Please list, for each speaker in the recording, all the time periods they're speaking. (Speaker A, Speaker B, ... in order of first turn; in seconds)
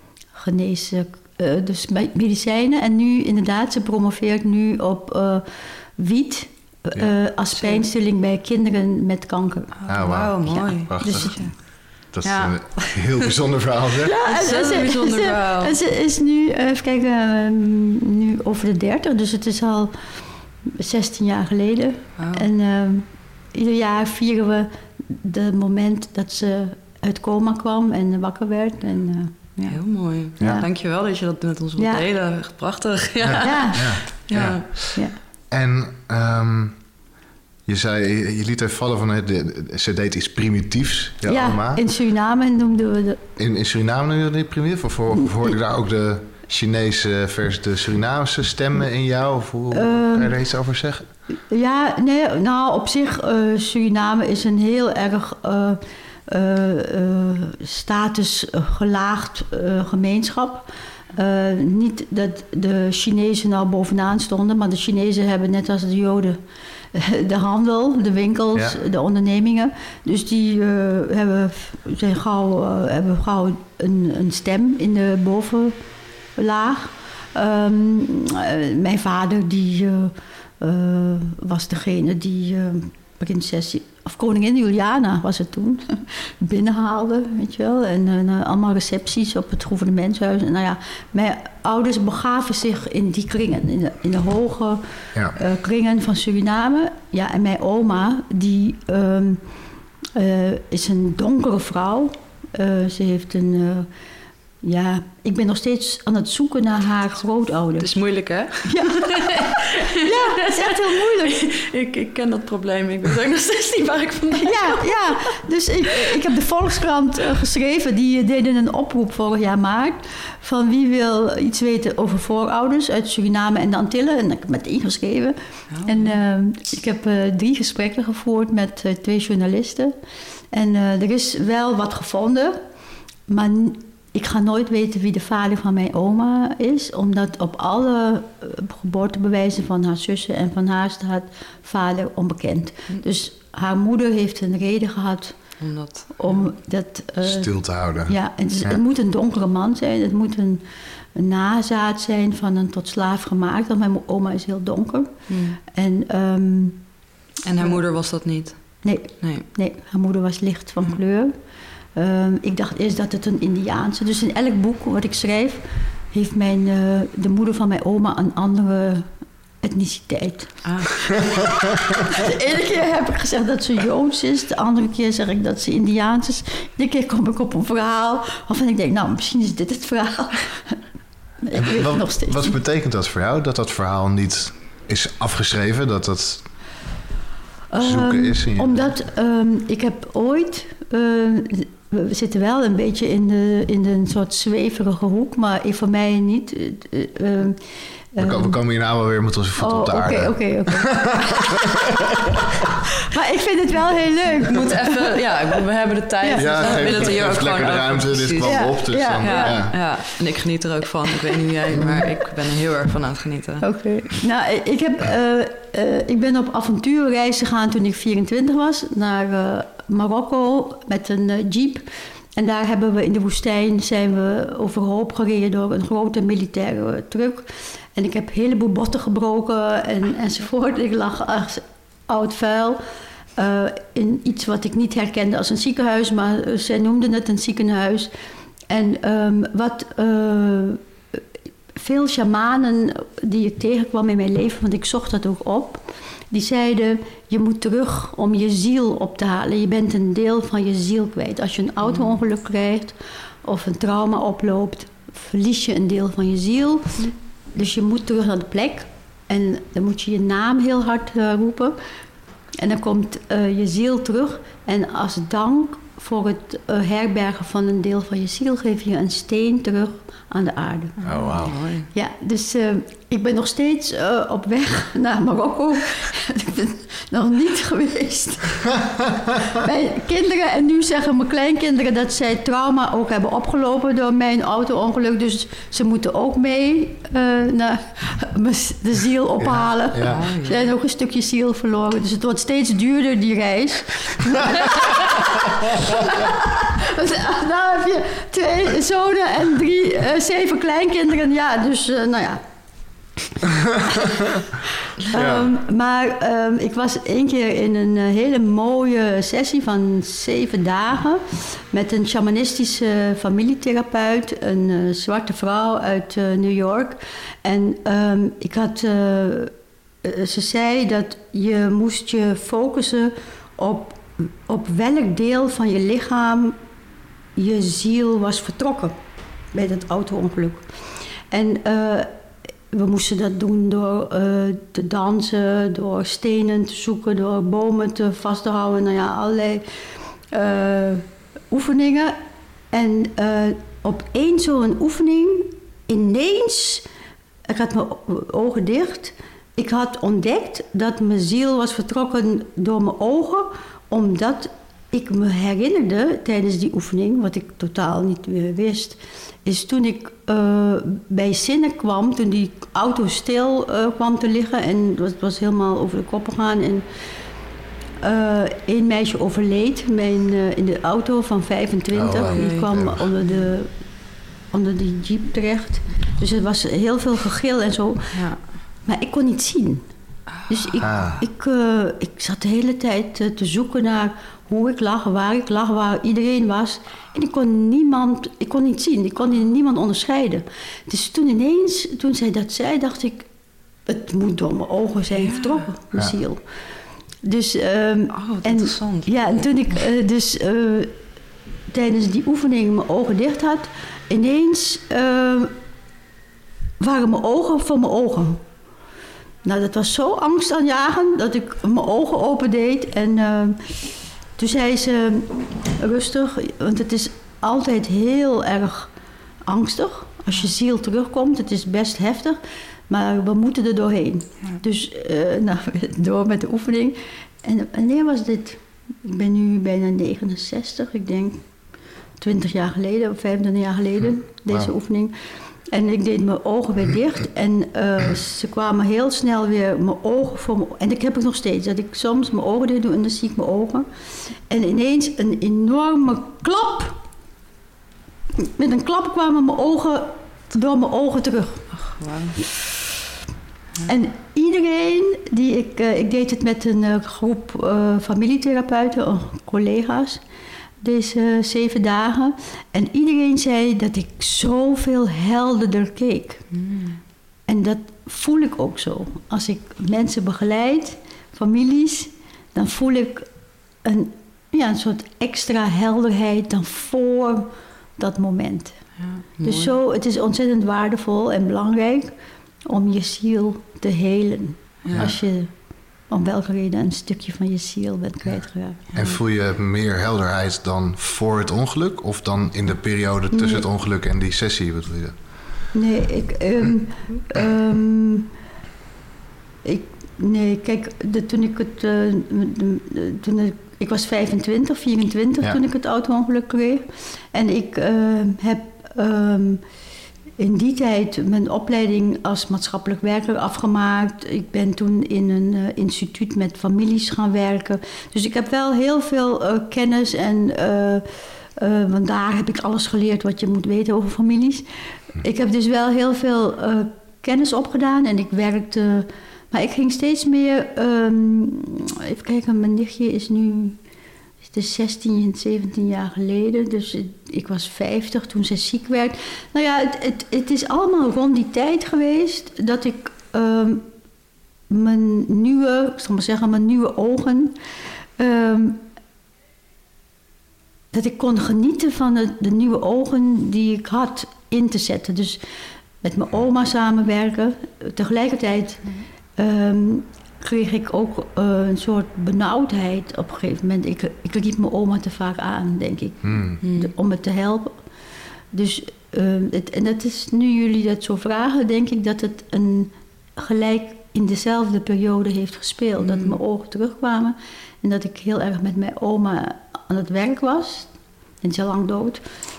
Speaker A: 0.3-9.7, 11.0-11.5, 14.0-29.8, 30.4-30.7, 31.8-32.0, 33.4-34.0, 41.3-43.2, 49.7-50.3, 51.5-66.4, 66.9-75.7, 76.3-99.4, 100.1-103.9, 104.6-107.9, 108.6-111.4, 114.4-129.9, 130.5-132.6, 133.3-145.3, 146.2-147.5, 148.1-150.6, 151.1-156.8, 158.8-161.3, 161.9-169.1, 169.6-180.8, 181.4-182.6, 187.7-198.6, 199.6-201.5, 203.1-205.2, 206.2-207.2, 208.4-209.8, 213.6-232.8, 233.4-238.1, 238.7-240.8, 241.8-261.8, 262.6-271.2, 271.9-302.4, 305.1-319.5, 320.0-326.6, 327.4-328.9, 329.5-330.7, 331.3-332.1, 332.7-339.7, 340.3-342.1, 342.7-346.9, 347.5-366.9, 368.0-373.7, 374.5-378.3, 378.8-379.8, 380.5-393.3, 393.9-396.4, 397.2-400.9, 401.7-405.5, 406.8-408.4, 409.4-418.9, 419.4-431.4, 432.2-435.1, 435.7-443.9, 444.5-447.0, 448.4-451.7, 453.9-460.2, 460.8-466.5, 467.5-473.3, 473.8-478.8, 479.4-482.1, 482.6-485.5, 486.1-488.9, 493.3-493.6, 495.7-498.3, 499.6-509.6, 510.4-521.0, 521.6-533.8, 534.5-543.8, 544.7-547.5, 548.2-548.8, 550.9-555.4, 556.0-567.8, 568.5-582.2
Speaker B: 7.5-7.8, 9.8-13.2, 14.2-15.8, 22.2-22.5, 29.6-34.7, 107.8-115.4, 125.7-126.2, 145.6-146.5, 155.3-155.6, 157.4-159.5, 170.6-171.0, 204.4-208.6, 209.2-213.7, 251.8-252.2, 271.1-271.9, 290.0-290.7, 372.2-372.7, 378.1-378.4, 380.4-381.2, 395.1-395.7, 398.1-399.8, 451.7-452.5, 466.5-467.0, 479.0-479.7, 484.8-485.1, 566.6-566.9, 576.0-576.4
Speaker C: 9.9-14.1, 30.4-30.6, 33.2-36.8, 37.6-41.8, 43.4-51.1, 147.2-148.8, 181.5-186.5, 187.8-188.9, 198.2-201.7, 206.3-209.8, 271.0-271.6, 289.4-290.3, 305.1-305.5, 371.9-373.1, 380.8-381.2, 484.9-485.2, 488.9-495.2, 566.2-566.6